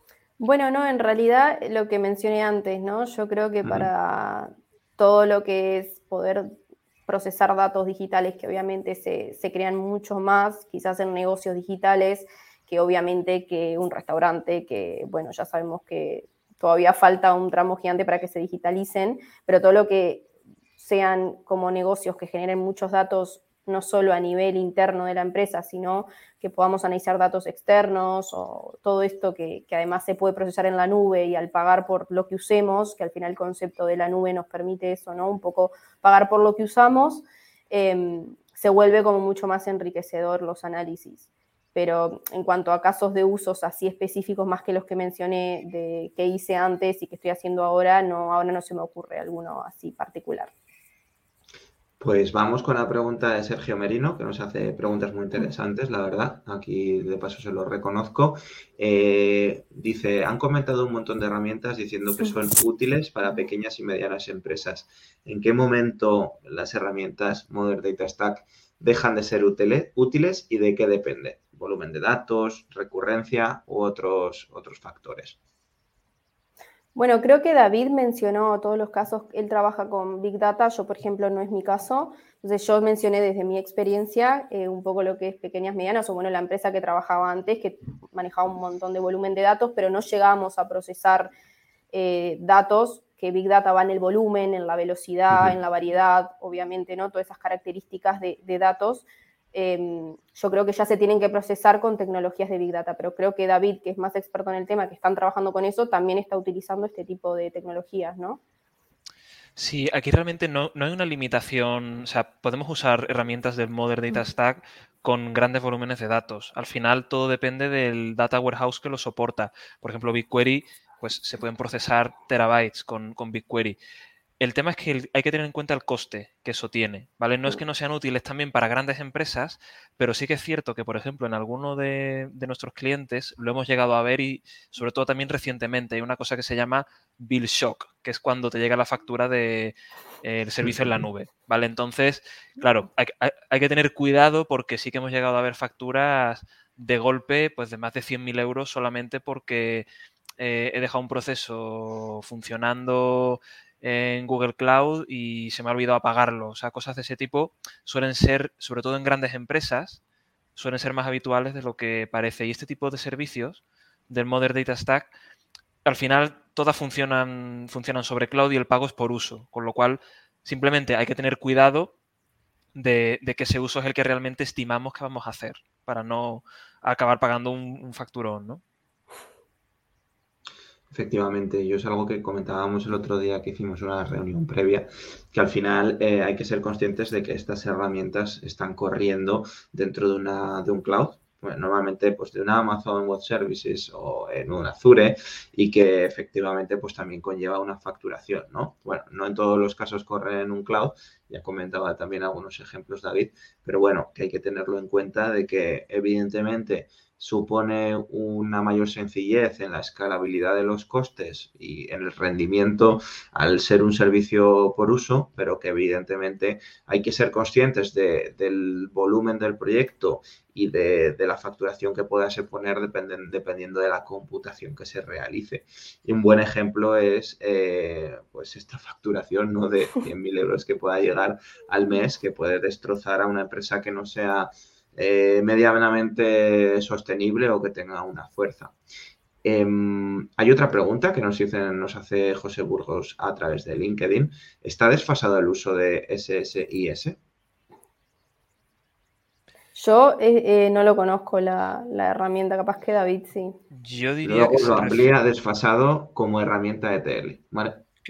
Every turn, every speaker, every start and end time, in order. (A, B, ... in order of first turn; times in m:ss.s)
0:00.4-0:06.6 A
0:07.1-0:50.5 A
0:52.0-1:15.4 B
1:17.0-1:31.3 A
1:31.9-1:48.4 A
1:49.6-2:03.8 C
2:04.4-2:29.9 C
2:20.6-2:21.0 B
2:30.4-2:40.0 C
2:40.6-2:45.1 C
2:45.8-2:51.9 C
2:52.8-2:58.6 C
3:00.9-3:58.8 B
3:59.4-4:07.2 B
4:09.8-4:13.6 A
4:13.7-4:15.1 C
4:14.2-4:17.8 B